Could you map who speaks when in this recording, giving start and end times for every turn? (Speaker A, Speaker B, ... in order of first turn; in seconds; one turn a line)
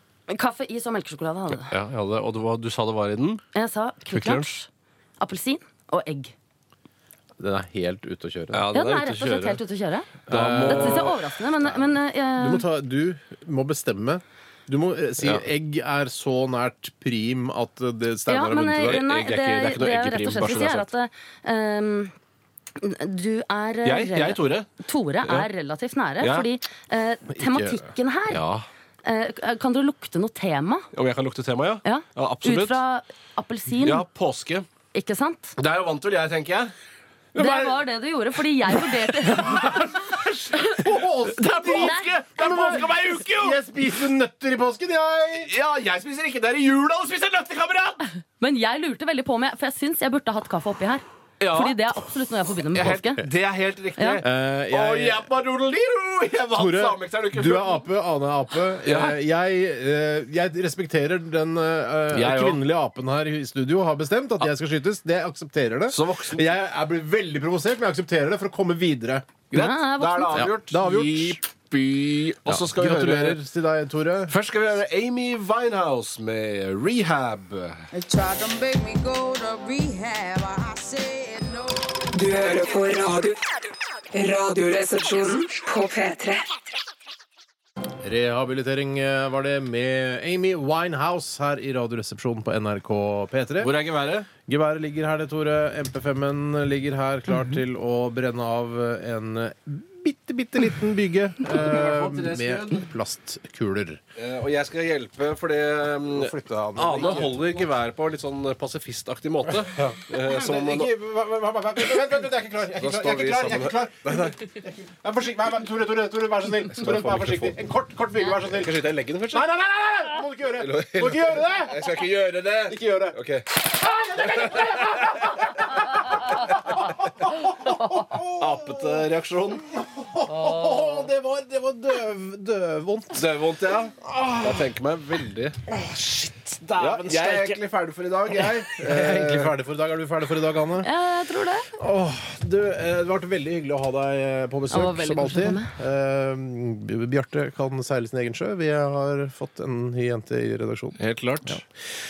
Speaker A: 0.3-1.7
Speaker B: 1.6-3.4
Speaker A: 3.5-4.7
Speaker B: 4.1-4.6
Speaker A: 5.2-6.3
Speaker C: 7.4-8.7
Speaker B: 8.5-9.6
Speaker A: 8.7-12.7
Speaker B: 10.3-11.2
Speaker C: 10.3-19.1
Speaker B: 15.2-15.5
Speaker A: 18.3-22.1
Speaker B: 18.8-20.9
Speaker A: 22.8-28.4
Speaker B: 23.8-24.7
Speaker B: 25.2-25.5
Speaker B: 26.2-26.5
Speaker C: 27.3-27.9
Speaker B: 28.3-28.7
Speaker A: 29.0-30.9
Speaker B: 30.9-32.8
Speaker A: 31.8-34.0
Speaker B: 33.7-34.7
Speaker A: 34.9-35.6
Speaker B: 35.6-36.7
Speaker C: 37.4-37.8
Speaker A: 37.4-39.9
Speaker B: 39.0-43.6
Speaker C: 39.3-45.5
Speaker A: 41.7-42.1
Speaker B: 45.4-48.0
Speaker A: 48.2-53.2
Speaker B: 51.4-52.0
Speaker B: 52.7-57.9
Speaker C: 52.8-53.0
Speaker A: 54.0-54.2
Speaker C: 54.2-55.3
Speaker C: 56.5-69.3
Speaker B: 58.8-59.2
Speaker B: 62.1-62.6
Speaker B: 65.9-66.5
Speaker B: 69.5-73.4
Speaker A: 69.5-70.5
Speaker C: 70.3-71.4
Speaker C: 72.5-74.4
Speaker B: 74.3-77.9
Speaker D: 77.9-81.8
Speaker E: 82.1-83.4
Speaker E: 84.1-86.5
Speaker C: 88.0-93.7
Speaker B: 93.6-94.3
Speaker C: 94.5-104.0
Speaker B: 101.4-102.9
Speaker B: 104.2-110.9
Speaker C: 106.1-107.7
Speaker C: 109.7-122.0
Speaker B: 112.8-114.4
Speaker B: 116.7-117.6
Speaker B: 118.3-119.4
Speaker B: 120.6-123.6
Speaker C: 122.6-128.9
Speaker B: 124.2-125.5
Speaker B: 126.4-126.9
Speaker B: 128.1-129.7
Speaker C: 129.7-133.3
Speaker B: 133.1-135.6
Speaker C: 133.8-134.7
Speaker C: 135.6-137.6
Speaker B: 136.8-139.5
Speaker C: 138.4-140.9
Speaker A: 140.8-141.8
Speaker C: 141.8-151.6
Speaker A: 144.7-145.7
Speaker B: 151.0-151.6